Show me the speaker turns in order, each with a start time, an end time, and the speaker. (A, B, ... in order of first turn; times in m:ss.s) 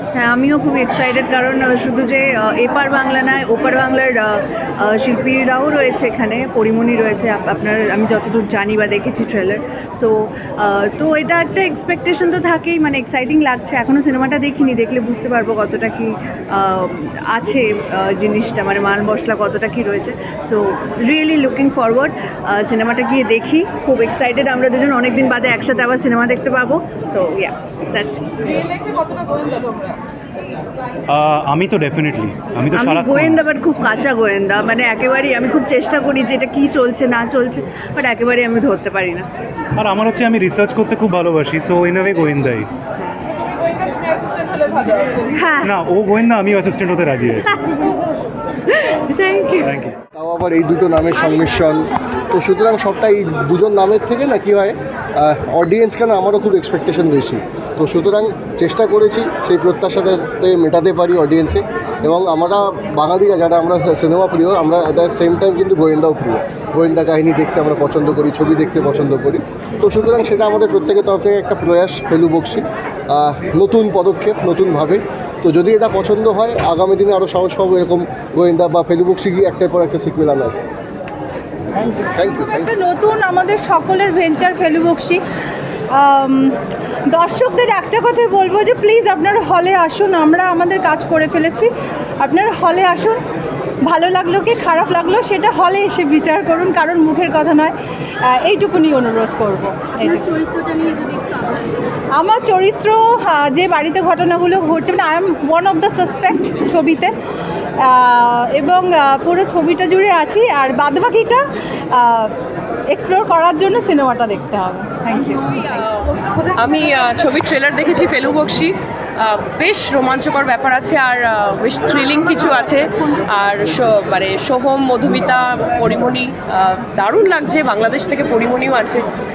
0:00.2-0:29.2 A
0:31.1-0:33.4 B
0:32.7-0:39.3 A
0:39.8-0:42.7 B
0:45.2-0:45.7 A
0:45.6-0:47.6 B
0:48.7-0:49.6 A
0:49.6-0:50.0 B
0:50.1-1:20.6 C
1:22.1-1:22.7 C
1:22.2-1:25.2 D
1:25.9-1:26.6 D
1:27.1-1:33.2 D
1:33.8-1:41.1 D
1:42.2-1:47.1 D
1:47.8-1:52.4 D
1:52.9-1:55.6 D
1:55.6-2:09.0 E